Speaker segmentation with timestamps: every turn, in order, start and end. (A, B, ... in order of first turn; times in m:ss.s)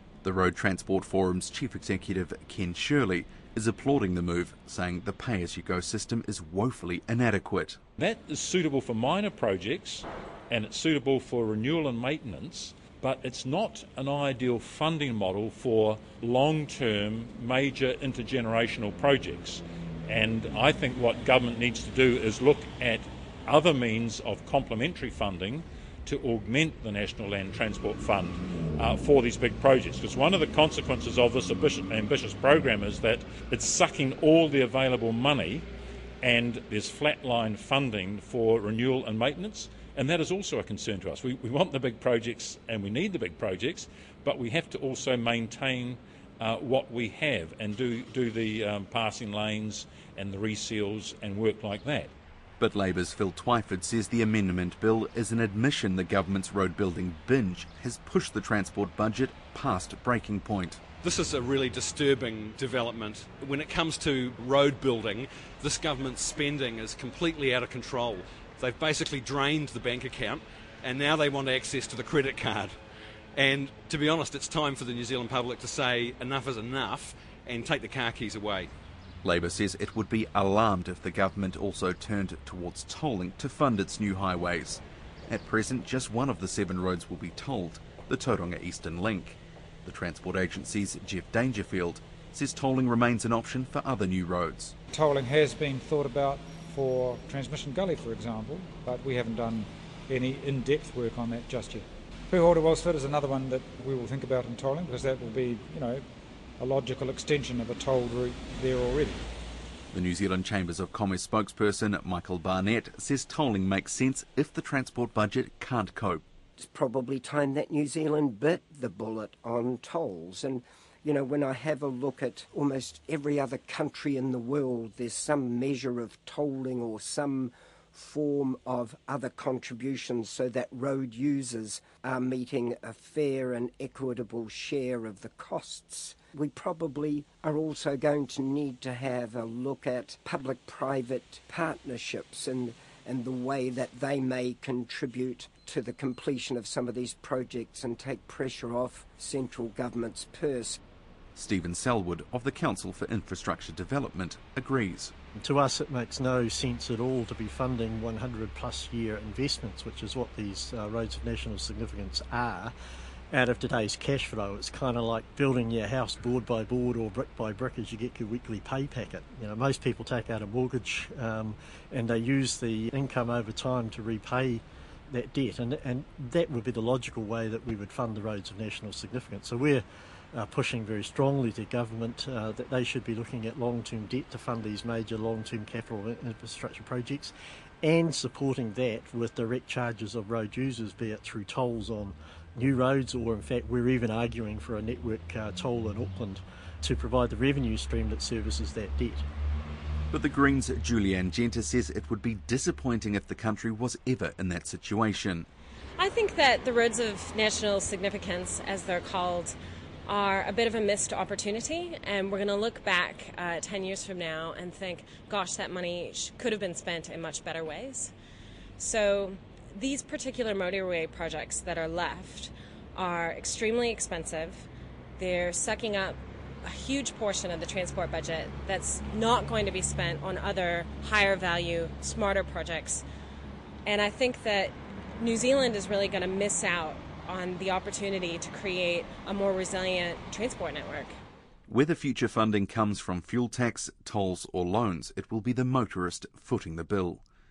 0:00.2-0:07.8 A
0:08.0-0:35.7 B
0:36.2-0:52.1 B
0:52.6-1:00.8 A
1:01.0-1:12.8 C
1:13.3-1:18.7 C
1:19.2-1:34.7 A
1:34.9-1:46.0 D
1:46.6-1:49.2 D
1:49.9-1:56.2 A
1:56.6-2:30.8 E
2:31.4-2:35.1 A
2:35.4-2:42.7 F
2:43.3-3:19.2 F
3:20.1-3:25.5 A
3:26.0-3:38.1 G
3:38.8-3:53.0 G
3:53.8-4:01.1 G
4:01.7-4:07.2 A